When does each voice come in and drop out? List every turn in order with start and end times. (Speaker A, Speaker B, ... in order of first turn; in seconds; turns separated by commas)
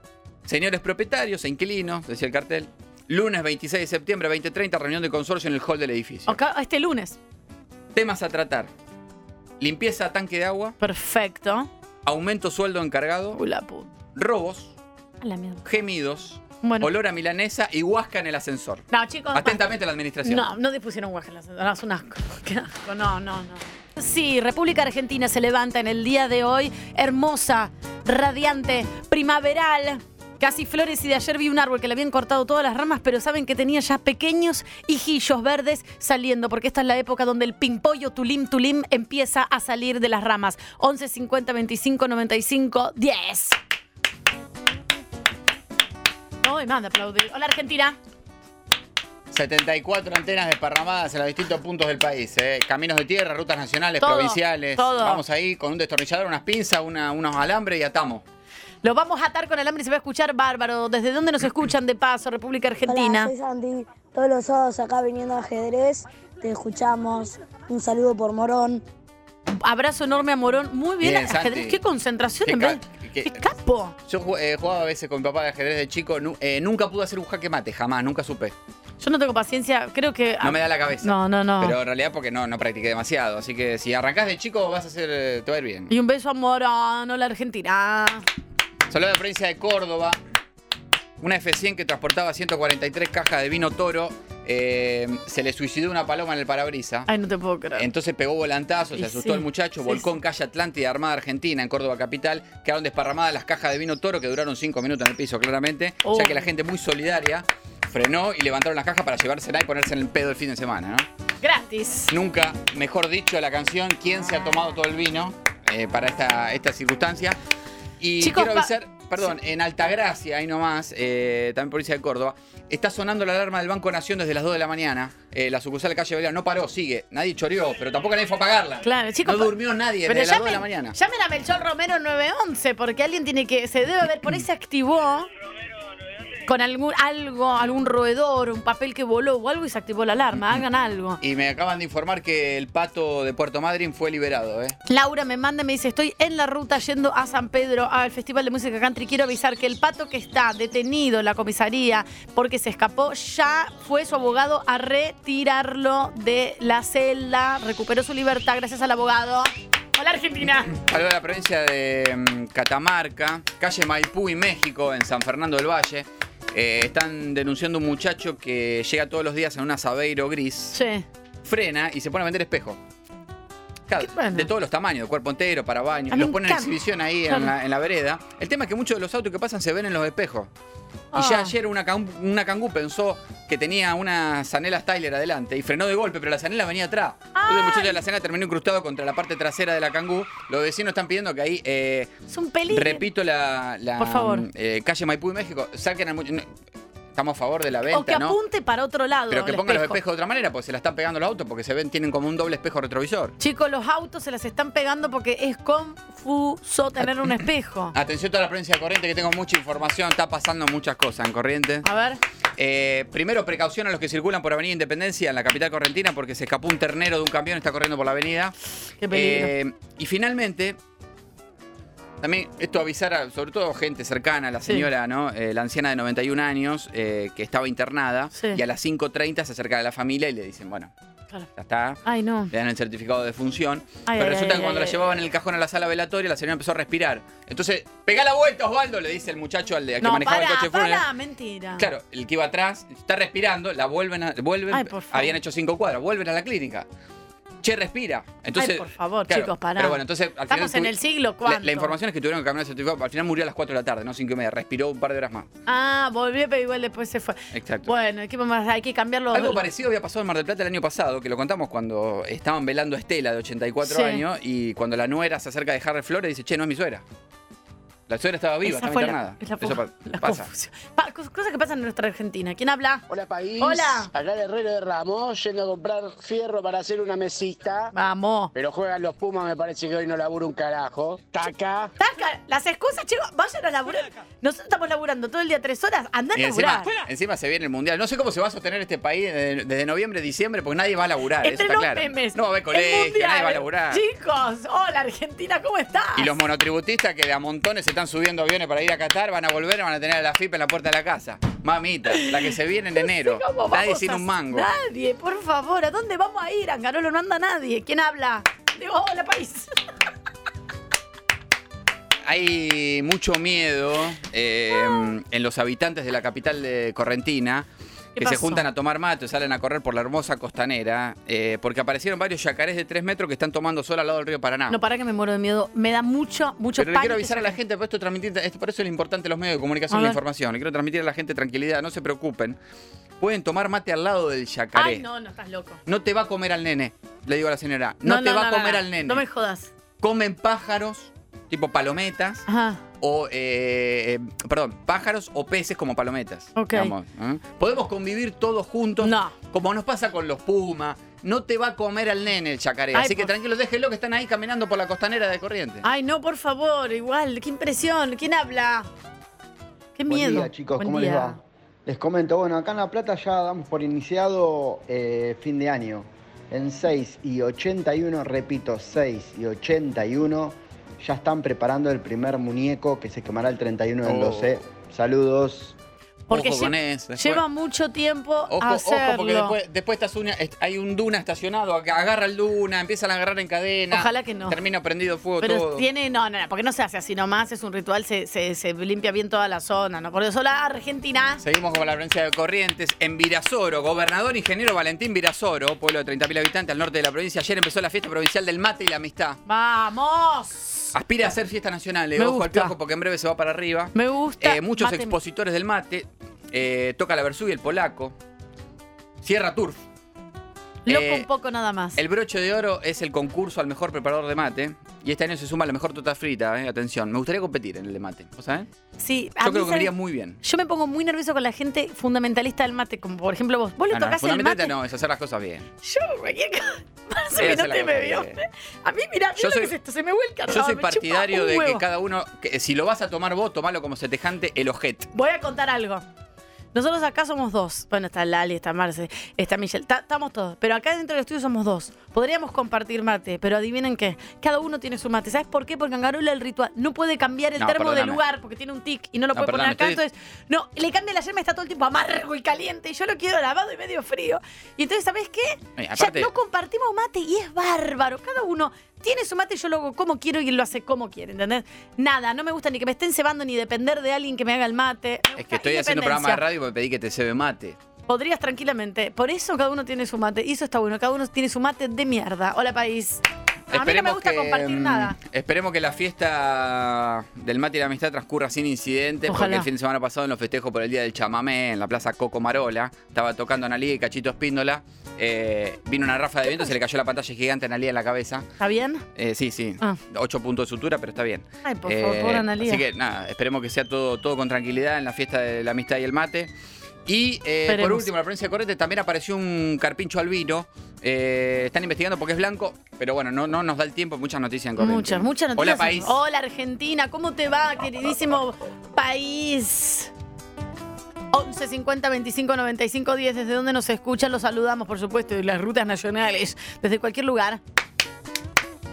Speaker A: 0.5-6.4, Speaker B: 6.3-7.2, Speaker A: 7.9-8.7, Speaker A: 9.6-10.8, Speaker B: 10.8-11.7, Speaker A: 12.1-13.4, Speaker B: 13.3-13.9, Speaker A: 14.1-14.7, Speaker B: 15.2-15.6, Speaker A: 15.6-20.5, Speaker B: 16.6-16.9, Speaker B: 18.9-19.6, Speaker B: 20.2-43.6, Speaker B: 46.4-48.0, Speaker A: 49.3-58.2, Speaker B: 54.0-55.2, Speaker B: 58.8-63.3, Speaker C: 62.8-68.8, Speaker B: 69.5-73.9, Speaker A: 71.0-71.8, Speaker A: 72.4-73.5, Speaker A: 74.0-78.5, Speaker B: 79.0-81.7, Speaker A: 80.4-85.9, Speaker B: 85.9-88.2, Speaker A: 88.9-90.2, Speaker A: 91.2-97.1, Speaker B: 97.1-97.9, Speaker A: 97.8-111.1, Speaker B: 99.0-100.0, Speaker B: 106.0-106.4, Speaker B: 111.4-112.1, Speaker A: 112.1-117.4, Speaker A: 118.0-130.9, Speaker B: 118.2-119.3, Speaker B: 128.8-129.5, Speaker B: 130.1-135.3, Speaker B: 136.5-141.2, Speaker A: 141.2-144.8, Speaker B: 144.9-160.7, Speaker A: 160.7-170.8, Speaker B: 170.7-171.0, Speaker A: 171.4-172.8, Speaker A: 173.9-180.5, Speaker B: 174.0-174.5, Speaker B: 176.1-176.7, Speaker B: 181.1-181.5, Speaker A: 181.1-192.1, Speaker B: 187.3-188.0, Speaker B: 192.3-193.0, Speaker A: 192.7-196.4, Speaker B: 194.0-194.4, Speaker A: 197.1-198.3, Speaker B: 197.9-200.0, Speaker A: 199.3-203.3, Speaker B: 203.4-207.9, Speaker A: 207.9-211.9, Speaker B: 211.8-212.2, Speaker A: 212.6-218.5, Speaker B: 219.0-219.5, Speaker A: 219.1-220.8, Speaker A: 222.2-230.9, Speaker A: 231.6-241.0, Speaker B: 232.1-232.5, Speaker B: 234.1-235.0, Speaker B: 240.0-241.9, Speaker A: 241.8-246.8, Speaker B: 244.7-245.3, Speaker A: 247.6-250.9, Speaker B: 248.6-251.9, Speaker A: 251.4-255.5, Speaker B: 255.7-259.6, Speaker A: 257.5-257.9, Speaker A: 259.3-267.0, Speaker B: 263.8-264.2, Speaker A: 268.1-270.5, Speaker B: 268.6-273.0, Speaker D: 273.1-277.9, Speaker B: 273.6-274.1, Speaker B: 277.9-278.5, Speaker D: 278.5-281.9, Speaker B: 282.0-286.9, Speaker A: 286.3-294.0, Speaker B: 291.4-296.3, Speaker A: 296.1-304.7, Speaker B: 302.1-302.5, Speaker B: 303.0-309.7, Speaker A: 312.2-317.7, Speaker B: 318.2-318.6, Speaker A: 318.2-324.8, Speaker B: 324.7-327.6, Speaker A: 326.8-332.6, Speaker B: 329.9-330.2, Speaker A: 333.2-335.0, Speaker B: 334.7-335.8, Speaker A: 335.9-339.2, Speaker B: 338.0-339.7, Speaker A: 340.0-342.4, Speaker B: 342.5-342.8, Speaker A: 343.0-355.9, Speaker B: 346.6-346.9, Speaker B: 349.0-349.3, Speaker B: 352.9-353.3, Speaker B: 355.8-358.9, Speaker B: 360.0-361.4, Speaker E: 360.1-375.8, Speaker A: 374.0-374.6, Speaker B: 376.3-379.5, Speaker A: 376.3-377.4, Speaker A: 378.5-385.9, Speaker B: 383.9-384.6, Speaker B: 385.4-391.4, Speaker A: 391.4-399.4, Speaker B: 399.4-400.9, Speaker A: 400.9-408.1, Speaker B: 402.2-402.7, Speaker B: 403.9-405.1, Speaker A: 409.2-409.8, Speaker B: 410.9-412.0, Speaker A: 410.9-411.3, Speaker A: 411.9-418.7, Speaker B: 419.0-419.9, Speaker A: 419.4-420.4, Speaker B: 420.4-424.7, Speaker A: 423.9-425.7, Speaker B: 425.8-431.8, Speaker A: 427.4-428.4, Speaker A: 429.4-429.7, Speaker A: 430.5-435.1, Speaker B: 435.1-436.0, Speaker B: 436.7-466.4, Speaker A: 447.6-448.2, Speaker A: 449.3-450.0, Speaker A: 455.8-456.3, Speaker A: 465.4-467.8, Speaker B: 468.1-475.1, Speaker A: 473.7-488.5, Speaker B: 479.3-479.7, Speaker B: 488.6-489.0, Speaker A: 489.1-496.5, Speaker B: 491.6-492.8, Speaker A: 497.1-506.2, Speaker B: 497.7-498.1, Speaker B: 504.8-510.1, Speaker B: 511.3-517.6